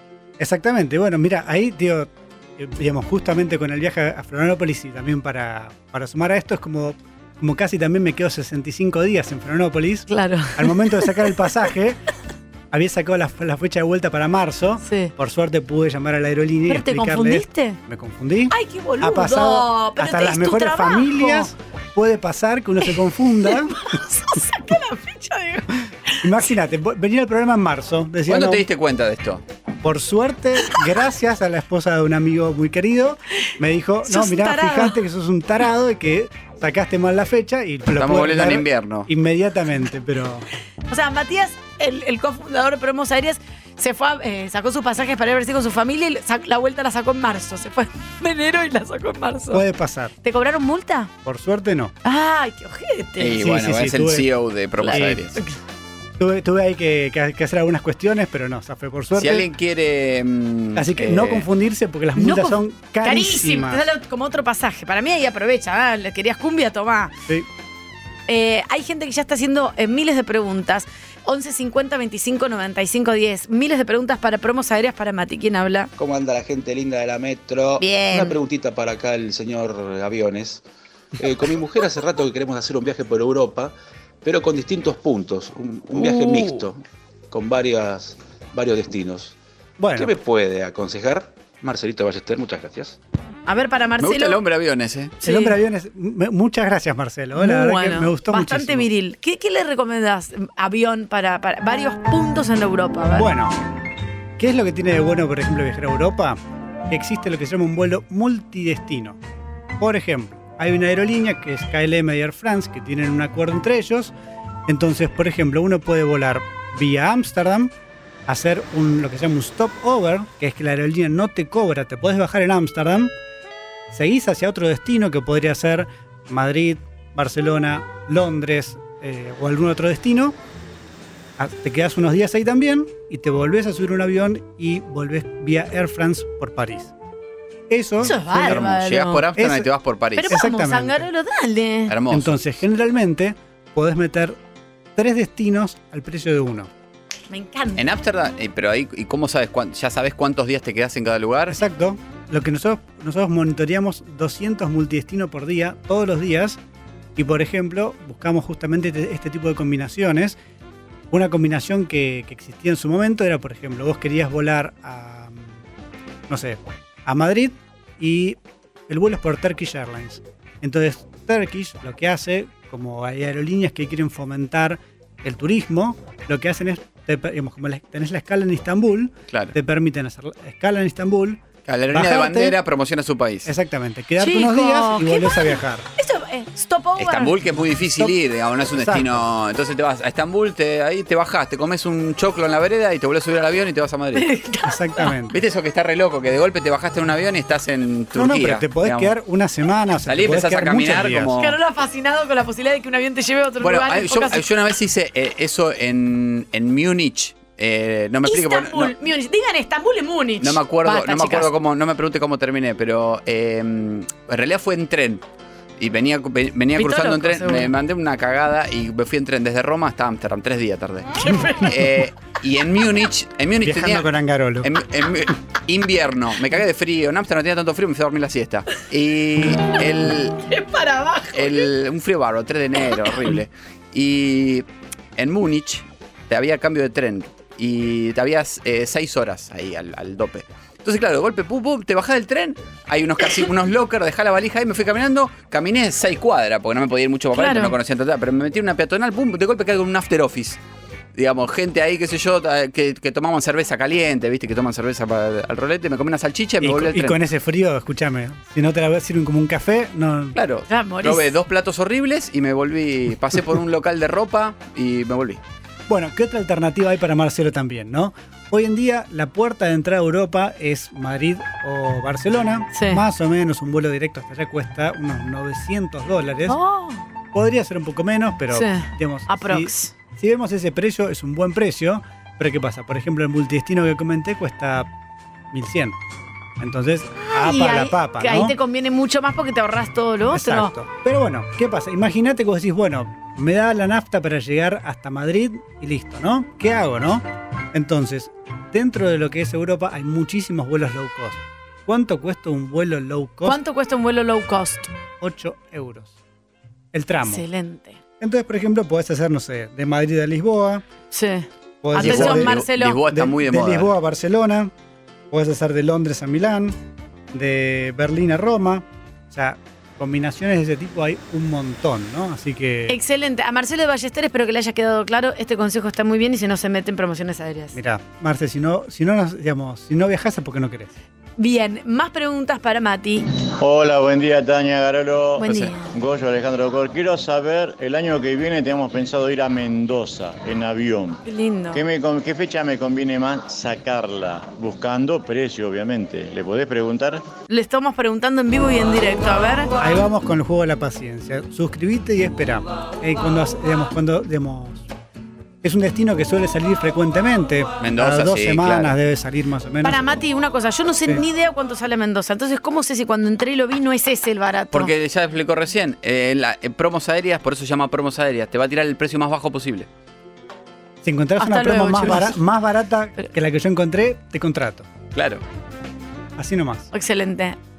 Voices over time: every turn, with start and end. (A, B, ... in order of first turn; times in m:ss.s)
0:00.4-0:12.0 A
0:10.1-0:11.3 B
0:12.7-0:23.8 A
0:14.8-0:15.1 B
0:16.7-0:17.8 B
0:18.5-0:21.5 B
0:22.9-0:26.2 B
0:26.2-0:28.7 A
0:28.3-0:29.4 C
0:29.8-0:40.5 A
0:34.0-0:35.0 B
0:37.9-0:39.1 C
0:40.9-0:49.6 B
0:49.5-0:50.1 A
0:50.2-0:51.1 B
0:51.2-0:51.9 A
0:52.0-0:53.4 B
0:53.2-0:55.4 C
0:53.4-0:54.3 A
0:54.8-0:55.6 B
0:54.9-0:55.3 A
0:56.2-0:59.5 A
0:59.2-1:01.4 C
1:00.8-1:03.8 A
1:02.2-1:07.1 B
1:08.3-1:15.9 B
1:16.0-1:20.6 D
1:17.8-1:18.4 B
1:21.2-1:29.4 D
1:29.8-1:30.1 A
1:30.0-1:33.0 D
1:33.5-1:34.4 B
1:34.0-1:35.2 C
1:35.2-1:35.6 B
1:35.2-1:38.9 A
1:37.4-1:43.3 B
1:43.1-1:43.6 A
1:44.4-1:49.2 A
1:49.8-1:54.1 A
1:54.7-1:57.7 A
1:58.3-2:03.1 A
2:03.9-2:10.4 A
2:11.4-2:16.9 A
2:17.7-2:18.6 A
2:18.0-2:19.2 B
2:18.3-2:20.4 C
2:19.4-2:19.7 A
2:20.2-2:22.0 B
2:20.3-2:21.1 A
2:21.9-2:22.3 C
2:22.1-2:24.4 A
2:25.0-2:26.7 A
2:27.3-2:27.8 B
2:27.8-2:31.6 C
2:31.5-2:36.6 A
2:37.2-2:40.4 A
2:41.1-2:45.6 A
2:46.3-3:02.6 A
3:01.7-3:03.5 C
3:03.4-3:05.9 A
3:04.2-3:07.4 B
3:07.0-3:14.3 C
3:08.8-3:09.2 A
3:14.2-3:15.1 B
3:14.6-3:15.4 A
3:15.3-3:19.1 C
3:18.1-3:21.3 A
3:20.1-3:21.6 C
3:21.4-3:24.4 B
3:23.6-3:28.9 C
3:28.2-3:31.5 B
3:30.4-3:35.2 C
3:35.8-3:44.1 C
3:36.8-3:37.7 B
3:41.2-3:41.8 B
3:43.6-3:44.7 A
3:44.6-3:50.4 C
3:50.5-3:51.7 B
3:51.3-3:54.6 C
3:55.2-4:10.6 C
4:07.3-4:07.8 B
4:11.2-4:17.2 C
4:16.6-4:20.4 A
4:20.4-4:25.4 C
4:20.7-4:21.3 B
4:25.9-4:36.6 A
4:32.7-4:33.0 B
4:36.5-4:37.0 B
4:37.3-4:44.9 A
4:38.5-4:39.9 B
4:45.5-4:46.0 A
4:46.6-4:48.6 A
4:47.2-4:50.7 B
4:50.3-5:03.6 A
5:03.5-5:04.9 B
5:05.2-5:06.1 A
5:06.9-5:07.5 A
5:07.2-5:08.0 B
5:08.2-5:10.8 A
5:11.1-5:13.0 B
5:11.8-5:14.7 A
5:12.0-5:13.9 C
5:15.3-5:16.8 A
5:17.3-5:23.0 A
5:22.9-5:27.8 B
5:27.7-5:30.9 A
5:31.4-5:33.3 B
5:33.6-5:41.2 E
5:35.4-5:35.9 B
5:35.5-5:35.8 C
5:41.2-5:41.8 B
5:41.7-5:47.2 E
5:47.5-5:49.7 B
5:49.8-5:54.9 A
5:55.6-6:00.2 A
5:57.8-5:59.0 C
5:59.8-6:04.9 B
6:04.7-6:09.9 C
6:11.0-6:14.9 A
6:11.4-6:12.4 B
6:15.2-6:15.4 C
6:16.4-6:16.9 A
6:16.9-6:17.6 B